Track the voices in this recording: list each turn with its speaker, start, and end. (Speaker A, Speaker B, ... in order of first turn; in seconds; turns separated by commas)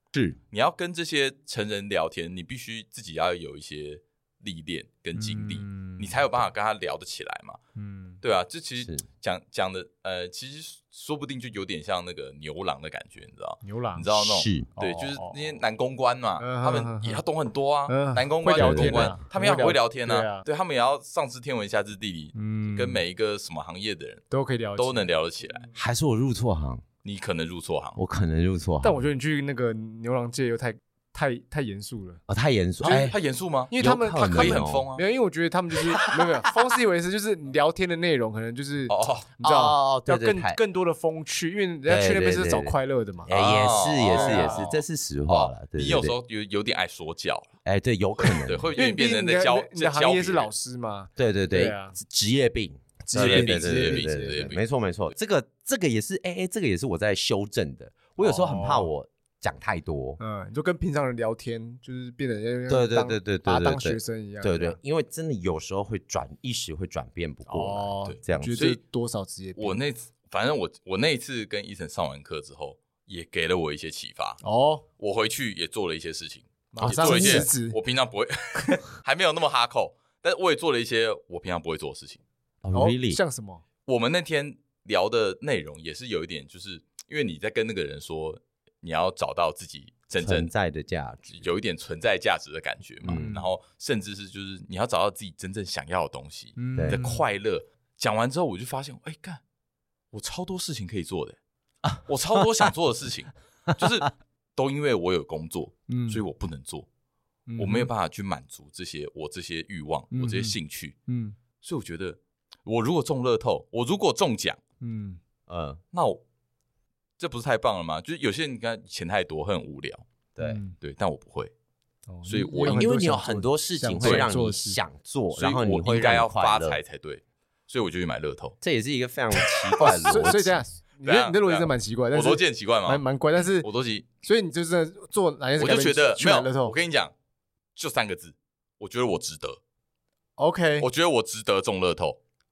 Speaker A: 0.1-0.4, Speaker B: 0.5-7.6, Speaker C: 5.1-6.3, Speaker C: 7.8-8.2, Speaker B: 8.2-24.2, Speaker C: 13.6-14.1, Speaker A: 14.1-14.7, Speaker C: 14.8-15.6, Speaker C: 16.4-17.2, Speaker C: 17.9-20.4, Speaker A: 18.5-19.2, Speaker C: 22.3-23.0, Speaker C: 24.3-25.1, Speaker B: 24.8-25.7, Speaker A: 25.7-26.8, Speaker B: 27.0-28.0, Speaker A: 27.9-29.0, Speaker C: 28.8-32.2, Speaker A: 32.3-33.2, Speaker C: 32.8-33.1, Speaker B: 32.8-35.0, Speaker C: 33.7-43.3, Speaker A: 33.8-34.9, Speaker B: 38.9-39.3, Speaker A: 39.4-40.6, Speaker A: 41.9-42.7, Speaker A: 43.2-46.1, Speaker B: 43.3-47.5, Speaker C: 44.1-44.7, Speaker A: 47.6-48.7, Speaker B: 48.2-50.5, Speaker C: 48.8-52.0, Speaker A: 51.2-60.2, Speaker C: 53.1-54.5, Speaker B: 53.1-54.6, Speaker C: 58.2-58.9, Speaker C: 60.2-64.8, Speaker A: 62.7-68.6, Speaker C: 67.5-69.8, Speaker B: 68.0-68.8, Speaker B: 69.5-74.4, Speaker C: 74.4-74.8, Speaker B: 75.0-82.2, Speaker C: 76.7-77.8, Speaker A: 76.8-77.5, Speaker A: 82.6-83.2, Speaker C: 82.7-83.6, Speaker B: 83.8-90.5, Speaker A: 90.2-91.5, Speaker B: 91.3-99.4, Speaker A: 93.0-93.3, Speaker C: 93.1-93.5, Speaker C: 96.6-97.2, Speaker A: 96.8-97.0, Speaker B: 100.1-101.4, Speaker A: 101.9-102.5, Speaker B: 102.0-106.9, Speaker C: 105.9-106.2, Speaker C: 107.5-107.9, Speaker B: 107.6-110.9, Speaker C: 110.1-110.5, Speaker C: 111.1-111.4, Speaker B: 111.6-114.6, Speaker C: 114.8-115.2, Speaker A: 115.5-115.8, Speaker B: 115.9-116.2, Speaker B: 117.2-120.0, Speaker C: 120.4-120.8, Speaker B: 120.8-121.5, Speaker C: 122.1-124.8, Speaker B: 122.2-122.9, Speaker A: 122.7-126.8, Speaker B: 124.0-124.3, Speaker B: 125.3-128.6, Speaker A: 128.6-130.6, Speaker B: 129.5-129.8, Speaker C: 129.8-133.7, Speaker B: 131.0-134.1, Speaker C: 134.2-136.7, Speaker B: 135.6-137.1, Speaker B: 137.8-139.6, Speaker C: 140.4-140.9, Speaker B: 140.8-142.2